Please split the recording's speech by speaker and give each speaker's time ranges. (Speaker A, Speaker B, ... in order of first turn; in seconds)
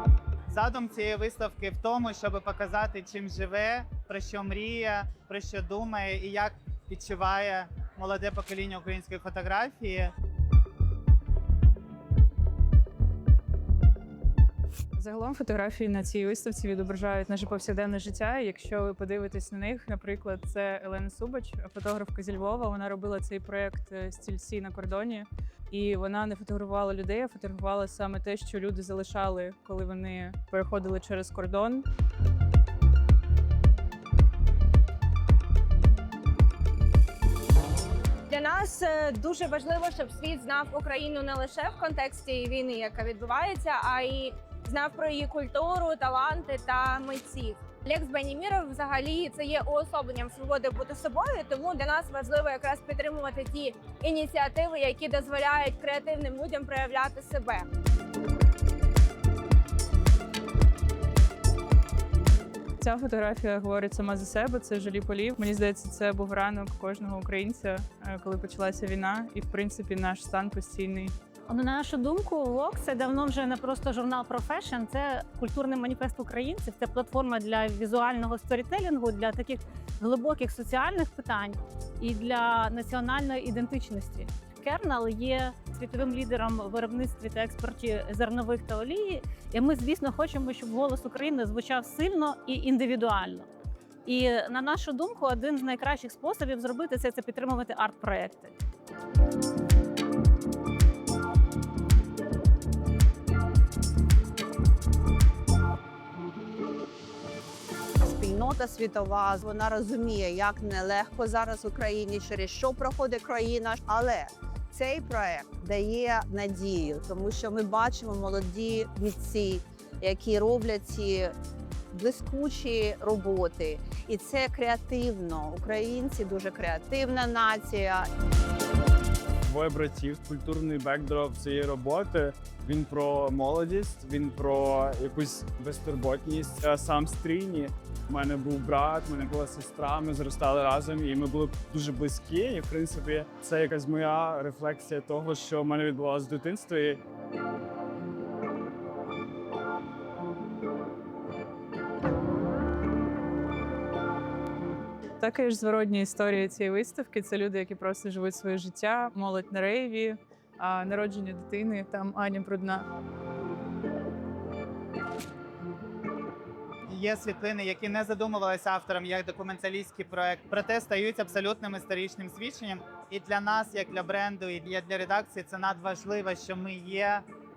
Speaker A: 0.5-10.1, 166.9-177.2
Speaker B: 14.9-31.9, 62.8-71.1, 155.2-162.9
Speaker C: 38.3-57.6
Speaker D: 71.5-93.5, 94.0-98.5
Speaker E: 108.0-121.3, 121.9-128.1
Speaker F: 129.4-147.0